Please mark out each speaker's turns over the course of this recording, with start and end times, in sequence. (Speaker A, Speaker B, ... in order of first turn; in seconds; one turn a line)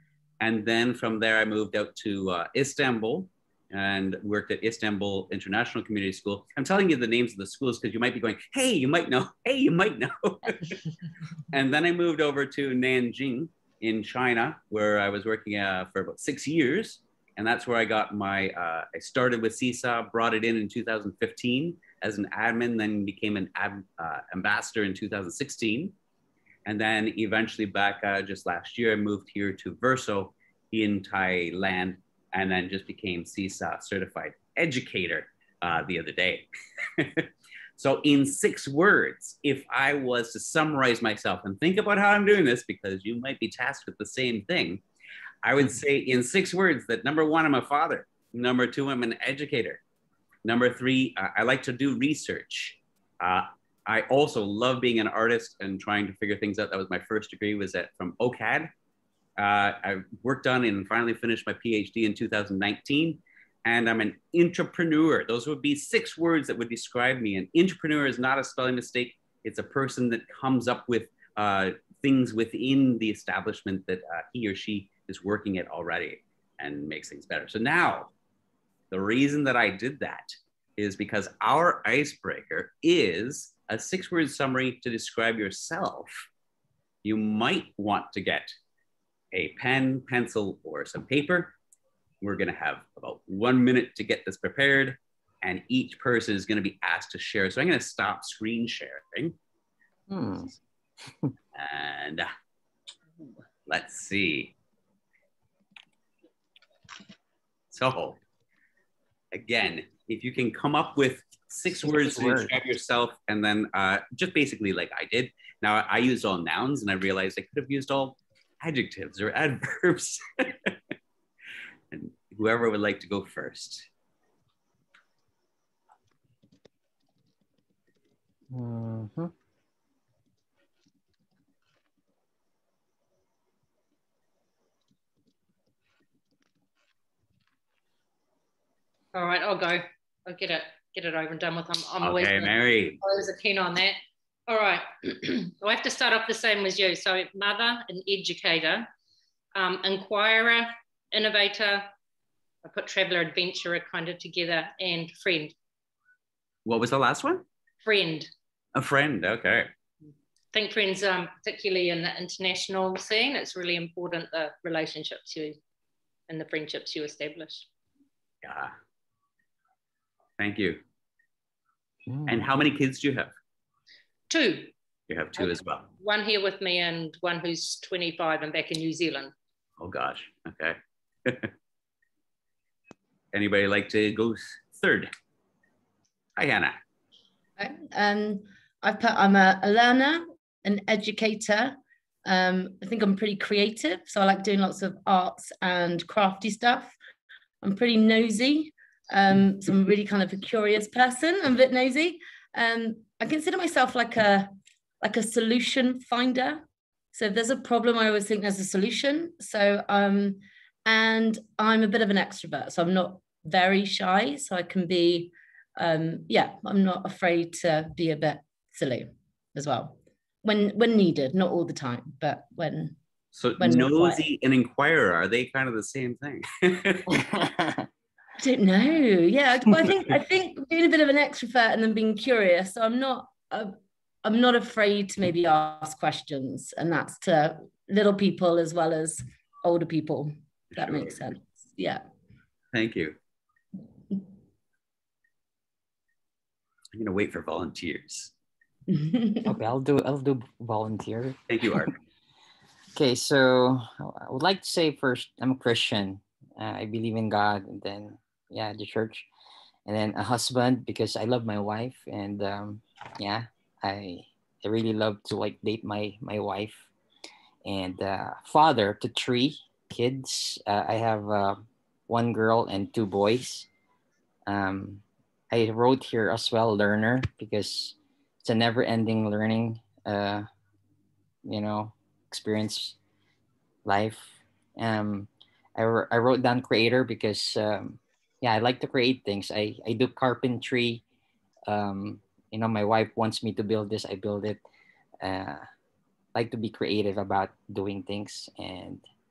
Speaker A: 0.4-10.8
Speaker A: 11.5-25.9
Speaker A: 26.7-44.8
Speaker A: 45.4-49.8
Speaker A: 50.5-58.7
Speaker A: 59.4-78.1
Speaker A: 78.9-86.3
Speaker A: 87.0-88.5
Speaker A: 89.3-91.5
Speaker A: 92.2-99.3
Speaker B: 100.1-100.5
Speaker B: 101.1-101.3
Speaker A: 101.5-102.3
Speaker A: 103.7-104.5
Speaker A: 107.7-108.2
Speaker A: 109.3-120.7
Speaker B: 111.8-112.5
Speaker A: 121.9-123.9
Speaker B: 128.5-129.3
Speaker C: 139.1-148.9
Speaker A: 142.0-143.0
Speaker C: 149.6-151.9
Speaker C: 152.6-155.5
Speaker A: 156.7-157.4
Speaker C: 157.8-158.3
Speaker A: 158.8-159.7
Speaker C: 160.5-165.6
Speaker C: 166.3-167.7
Speaker A: 168.4-168.7
Speaker A: 170.4-170.8
Speaker B: 172.1-172.4
Speaker A: 172.3-173.3
Speaker C: 174.3-174.7
Speaker A: 175.1-175.9
Speaker C: 175.4-179.3
Speaker A: 179.8-181.5
Speaker A: 183.3-185.1
Speaker A: 186.4-186.8
Speaker D: 187.6-196.9
Speaker D: 197.6-223.0
Speaker A: 223.3-227.2
Speaker D: 223.6-224.2
Speaker B: 227.1-227.9
Speaker D: 228.4-242.0
Speaker A: 240.7-241.2
Speaker A: 242.7-243.2
Speaker A: 246.9-248.3
Speaker D: 248.9-249.5
Speaker B: 249.5-251.9
Speaker A: 251.5-251.9
Speaker B: 252.9-259.3
Speaker B: 259.9-266.9
Speaker B: 267.6-273.7
Speaker B: 274.5-280.5
Speaker B: 281.4-283.0
Speaker B: 283.9-291.0
Speaker B: 291.7-294.6
Speaker B: 295.2-295.7
Speaker B: 296.4-299.0